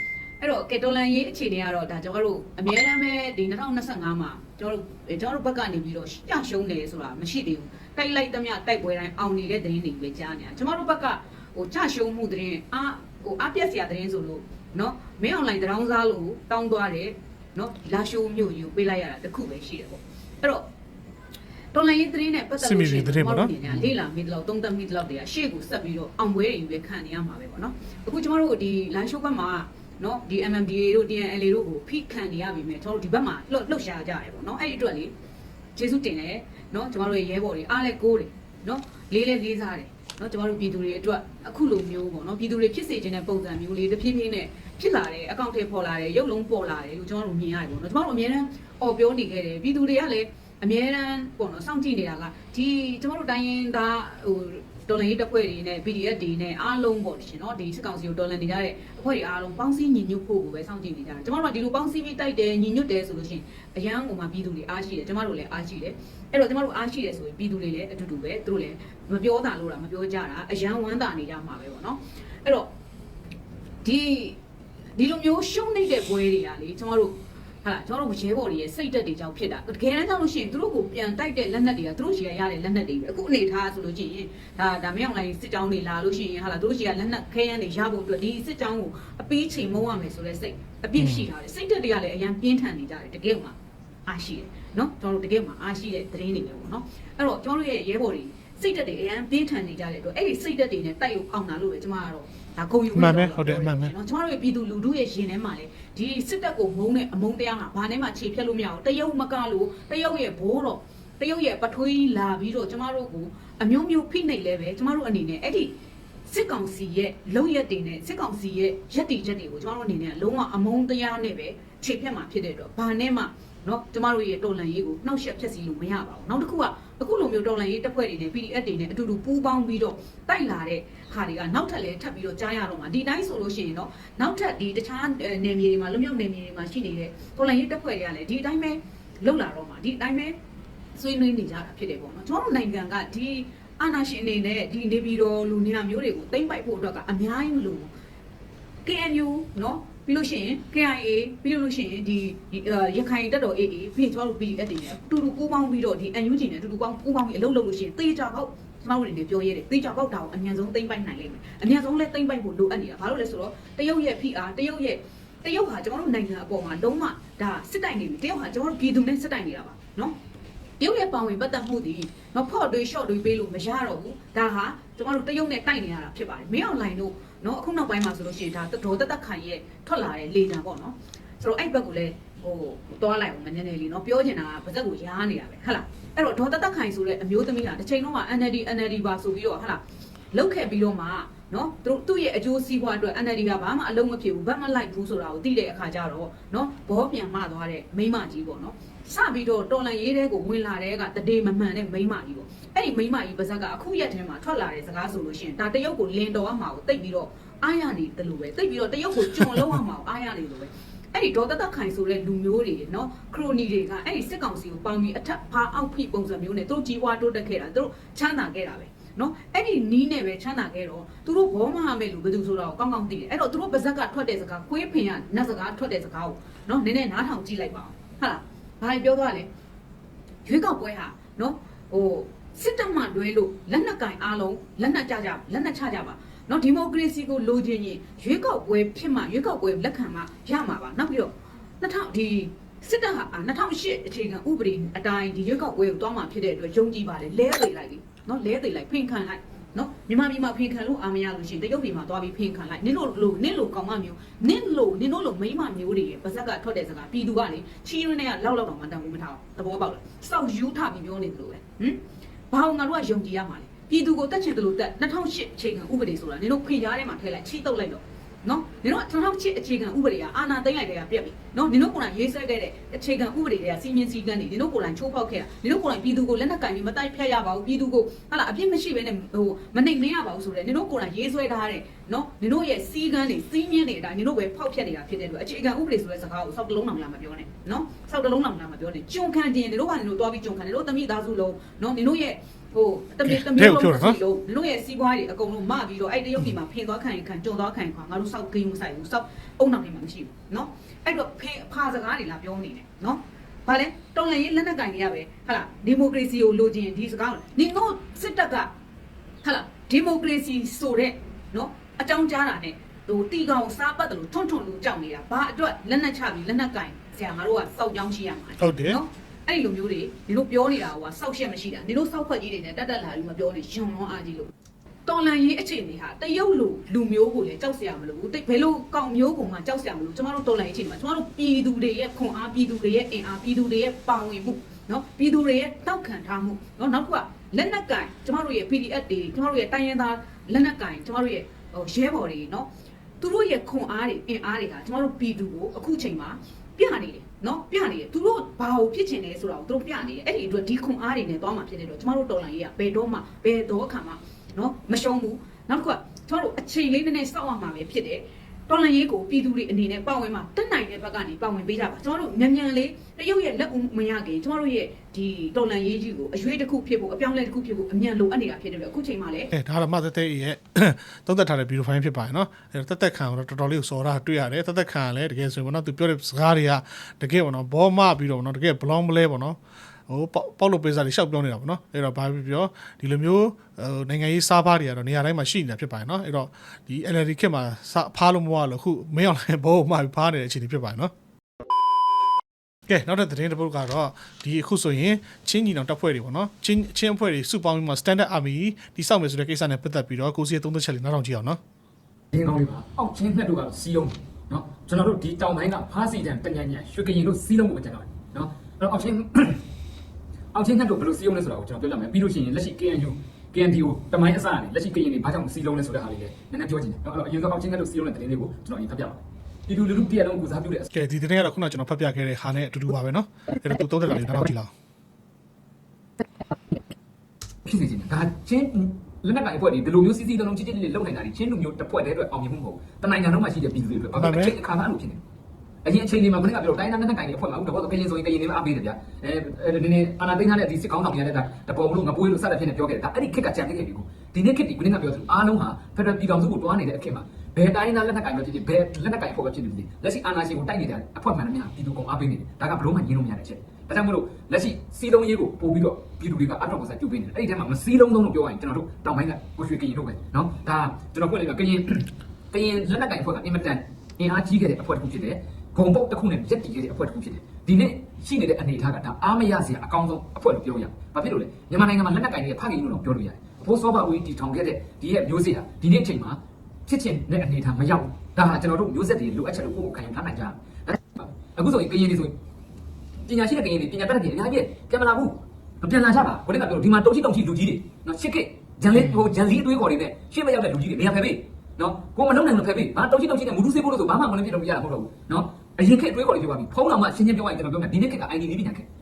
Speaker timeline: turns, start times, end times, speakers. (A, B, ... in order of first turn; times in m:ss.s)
0:00.4-0:20.6 A
0:21.7-0:35.1 A
0:22.6-0:23.9 B
0:35.7-1:12.7 A
1:13.8-1:14.4 A
1:15.0-1:33.5 A
1:31.0-1:31.3 B
1:34.1-1:55.7 A
1:42.9-1:43.9 B
1:56.3-2:20.4 A
2:20.9-2:27.9 A
2:28.8-2:50.2 A
2:50.8-3:09.8 A
3:10.3-3:49.5 A
3:50.4-4:22.0 A
4:22.5-5:08.7 A
4:53.2-4:54.2 B
5:09.4-5:24.5 A
5:18.6-5:19.0 B
5:25.0-5:42.7 A
5:43.2-6:09.5 A
6:09.5-6:19.6 B
6:20.1-6:31.1 B
6:32.9-6:41.6 B
6:42.3-6:49.6 C
6:50.5-7:00.9 C
7:00.9-7:04.7 B
7:07.6-7:15.2 C
7:14.2-7:14.5 B
7:15.8-8:02.3 C
8:03.3-8:18.8 C
8:08.9-8:09.2 B